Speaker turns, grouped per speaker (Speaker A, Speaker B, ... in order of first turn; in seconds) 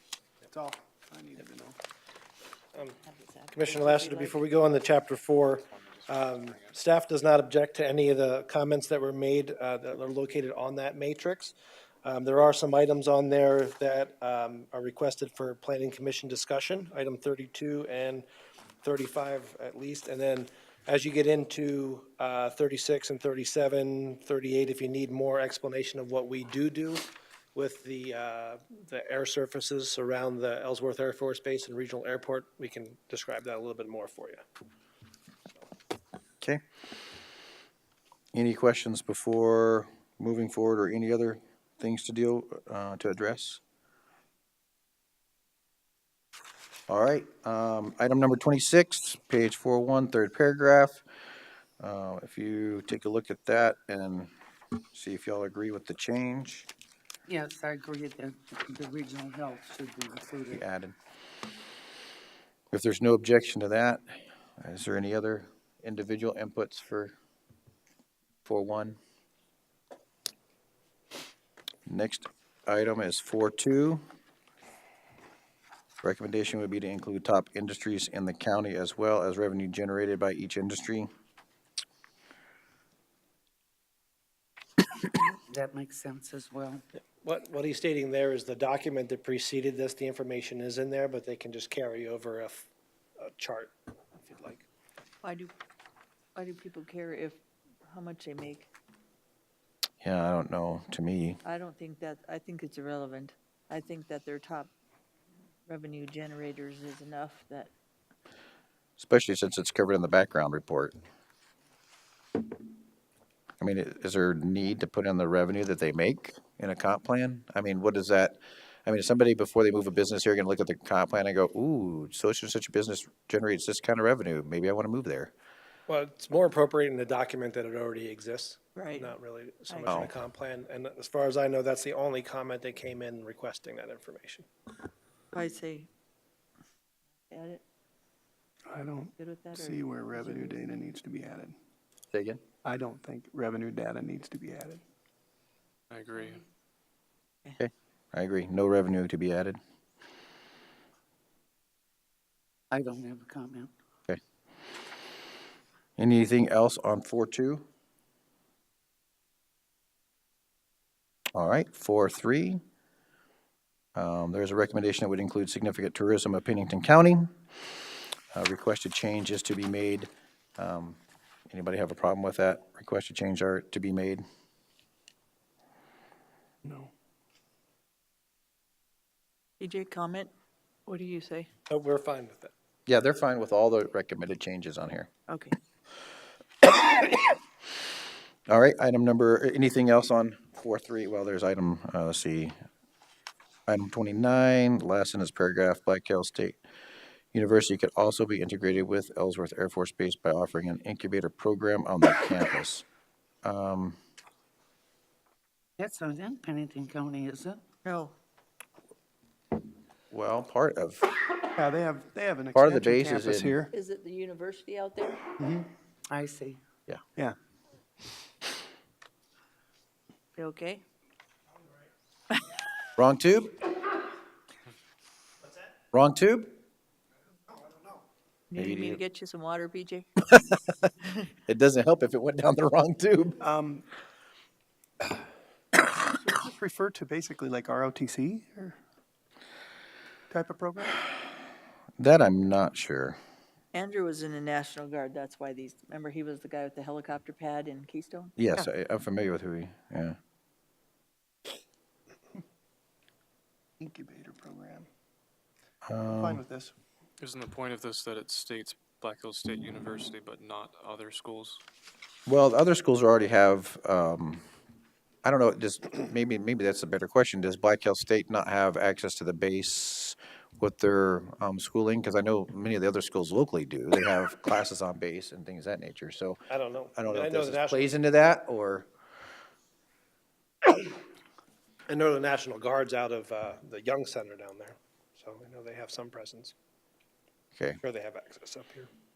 Speaker A: 0.4-1.8, 138.7-141.6, 142.6-144.8, 176.6-176.9, 211.6-213.7, 215.4-215.7, 233.4-233.8, 235.8-238.8, 240.3-241.0, 253.8-254.9, 256.1-256.8
Speaker B: 3.1-4.4, 95.2-95.5, 96.3-98.7, 101.5-104.7, 105.7-107.7, 128.8-129.2, 129.7-130.0, 135.3-135.9, 137.3-137.6, 139.2-140.6, 179.6-180.3, 180.9-181.5, 185.3-185.6, 207.8-208.2, 213.7-215.3, 220.4-220.8, 228.5-230.1, 243.7-248.7
Speaker C: 3.5-18.3, 18.8-34.4, 87.2-92.7, 93.2-94.7, 125.9-134.5, 181.7-182.5, 276.5-277.8, 281.9-286.6, 287.8-288.9
Speaker D: 38.3-43.6, 46.9-51.0, 51.8-54.3, 54.9-56.7, 60.5-61.0, 62.7-64.0, 64.6-67.1, 68.5-69.0, 71.9-74.0, 76.0-81.1, 100.0-101.4, 109.0-111.0, 113.6-125.3, 129.9-130.1, 142.1-142.4, 147.6-149.6, 156.0-157.6, 161.3-162.6, 163.9-167.3, 168.3-171.0, 171.5-174.2, 182.9-185.1, 186.6-187.3, 188.5-192.5, 193.7-196.6, 197.3-202.9, 203.4-204.0, 210.1-211.1, 212.6-213.6, 223.0-223.7, 225.9-226.6, 228.6-229.0, 230.3-230.6, 231.5-233.4, 242.0-243.2, 248.4-250.2, 255.9-256.4, 262.3-264.4, 265.2-276.4, 277.0-278.9, 287.6-287.8
Speaker E: 57.3-60.6, 85.1-86.8, 152.7-153.7, 205.8-207.6, 216.1-216.6
Speaker F: 145.9-146.4, 257.2-261.6